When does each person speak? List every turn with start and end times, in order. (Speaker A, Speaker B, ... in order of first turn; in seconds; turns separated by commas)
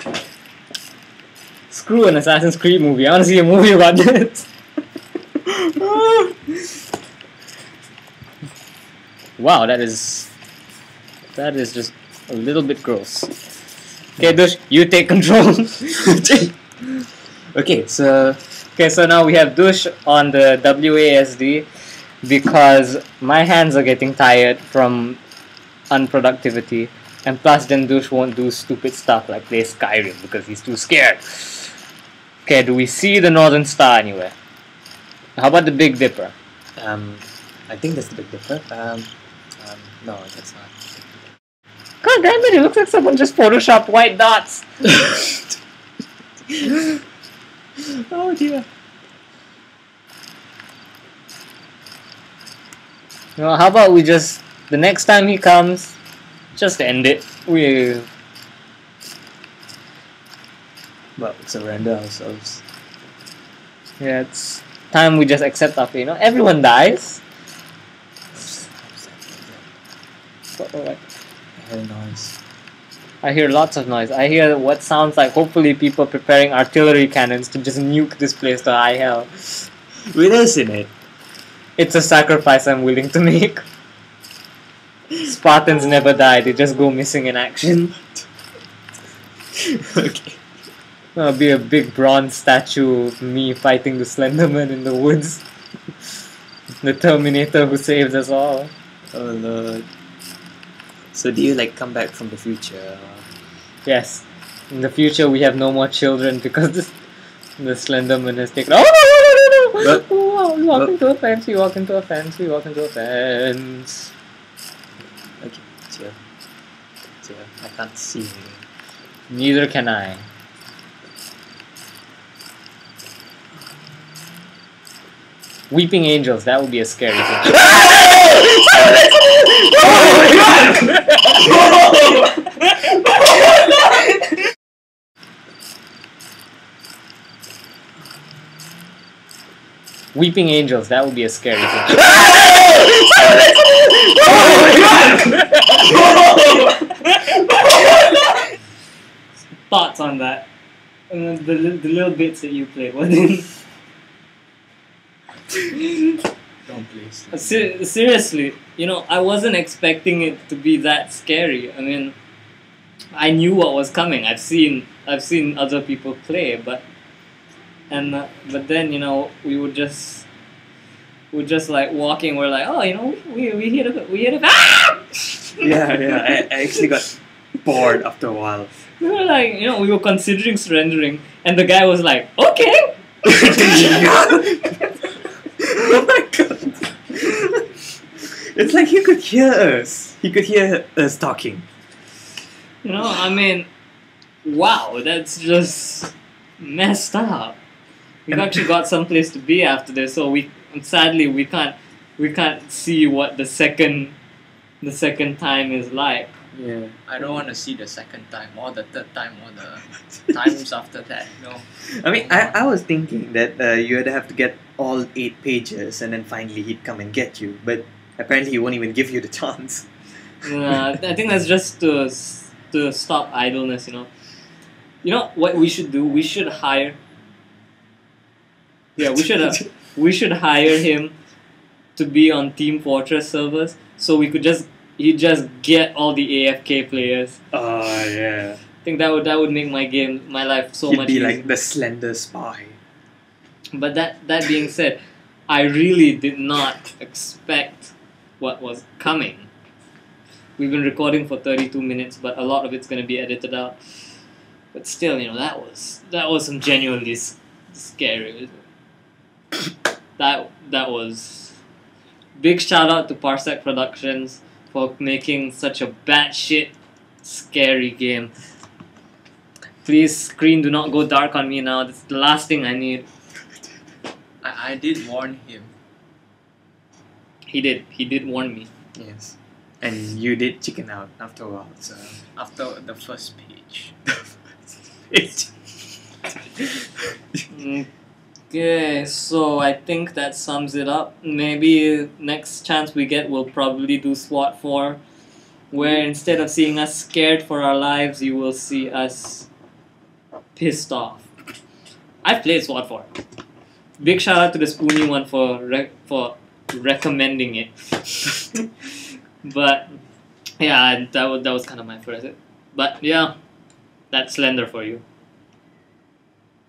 Speaker A: 1.7-4.5, Speaker B: 5.8-6.2, Speaker A: 9.4-10.3, Speaker A: 11.3-13.3, Speaker A: 14.2-16.1, Speaker B: 16.0-18.4, Speaker A: 18.8-21.7, Speaker A: 22.2-25.2, Speaker A: 25.9-31.7, Speaker A: 32.5-34.3, Speaker A: 35.4-36.3, Speaker B: 36.8-39.1, Speaker B: 39.6-40.8, Speaker A: 42.0-44.6, Speaker B: 46.5-47.0, Speaker B: 47.8-48.6, Speaker A: 53.4-56.0, Speaker A: 56.5-58.1, Speaker B: 61.2-62.6, Speaker A: 64.0-67.2, Speaker B: 68.3-69.6, Speaker A: 70.5-71.0, Speaker B: 71.6-72.4, Speaker A: 73.2-79.7, Speaker B: 80.1-80.9, Speaker A: 81.8-83.6, Speaker A: 85.2-88.0, Speaker B: 89.5-90.4, Speaker A: 91.1-95.4, Speaker A: 96.8-98.7, Speaker B: 99.1-99.8, Speaker B: 101.1-103.2, Speaker A: 103.8-106.9, Speaker A: 107.6-114.1, Speaker B: 115.4-116.2, Speaker B: 117.2-118.6, Speaker A: 119.3-120.2, Speaker A: 125.7-127.9, Speaker B: 129.8-130.1, Speaker A: 140.1-142.8, Speaker A: 144.2-144.7, Speaker C: 144.5-146.0, Speaker A: 145.3-148.5, Speaker A: 149.7-150.5, Speaker A: 151.1-153.5, Speaker A: 155.5-156.2, Speaker C: 156.7-157.7, Speaker A: 157.3-162.1, Speaker A: 163.1-166.8, Speaker A: 167.9-170.3, Speaker A: 171.3-176.8, Speaker B: 175.6-178.7, Speaker A: 179.0-184.6, Speaker B: 183.2-184.7, Speaker B: 185.6-191.6, Speaker A: 192.8-193.7, Speaker A: 194.4-197.6, Speaker A: 198.3-204.2, Speaker A: 204.8-206.3, Speaker B: 206.5-207.0, Speaker C: 207.1-212.6, Speaker B: 211.8-219.9, Speaker A: 220.4-224.1, Speaker A: 225.0-227.0, Speaker A: 229.0-231.1, Speaker A: 231.9-237.4, Speaker B: 237.5-238.6, Speaker A: 238.8-241.4, Speaker B: 240.8-242.8, Speaker A: 243.7-249.5, Speaker A: 250.6-253.8, Speaker A: 254.7-258.6, Speaker A: 260.2-261.6, Speaker A: 262.4-268.3, Speaker A: 269.8-273.1, Speaker C: 274.4-275.7, Speaker A: 277.5-278.7, Speaker B: 278.9-282.2, Speaker C: 282.3-283.9, Speaker B: 285.1-285.5, Speaker B: 286.6-286.9, Speaker A: 287.5-287.9, Speaker A: 288.5-295.0, Speaker A: 295.7-299.5, Speaker A: 300.5-301.2, Speaker A: 302.2-303.1, Speaker A: 304.0-308.4, Speaker A: 309.4-309.9, Speaker A: 310.6-313.4, Speaker A: 314.1-315.0